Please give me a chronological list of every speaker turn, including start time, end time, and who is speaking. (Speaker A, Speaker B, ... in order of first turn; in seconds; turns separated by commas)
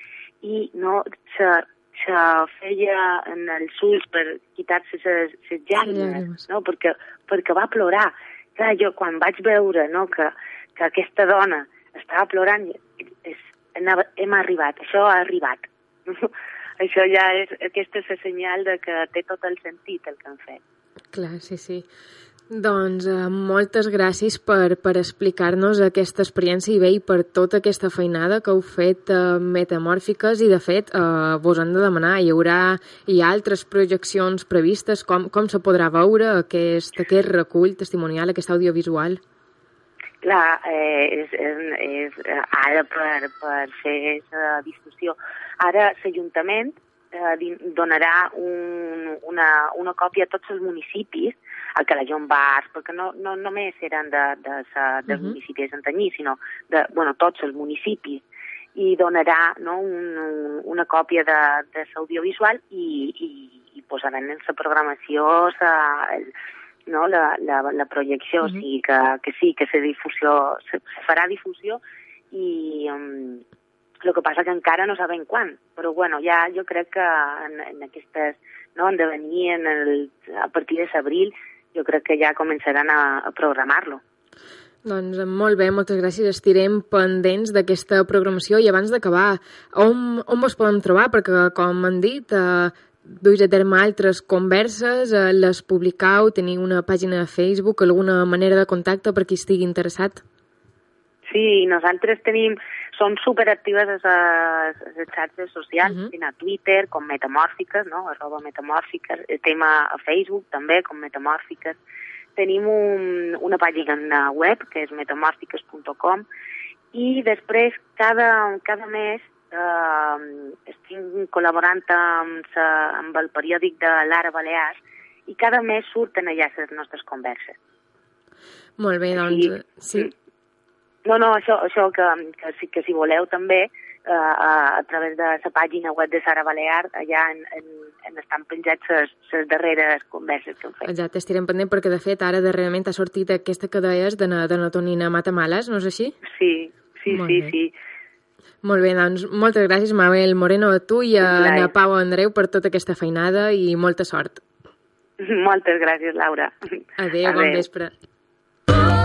Speaker A: 0.4-20.6, Speaker B: 5.8-6.4, Speaker B: 21.1-21.9, Speaker B: 22.5-39.2, Speaker A: 40.2-58.2, Speaker B: 55.1-55.3, Speaker A: 58.7-66.3, Speaker A: 66.9-73.4, Speaker A: 74.0-84.0, Speaker B: 84.8-100.2, Speaker A: 101.3-111.8, Speaker B: 105.8-106.1, Speaker A: 112.3-116.2, Speaker A: 116.9-127.6, Speaker B: 128.8-130.1, Speaker A: 129.1-130.1, Speaker A: 131.0-140.9, Speaker B: 140.8-146.2, Speaker A: 146.2-147.7, Speaker B: 147.1-147.5, Speaker B: 148.6-154.4, Speaker A: 151.2-151.7, Speaker A: 155.2-156.5, Speaker B: 157.0-157.9, Speaker A: 157.2-157.6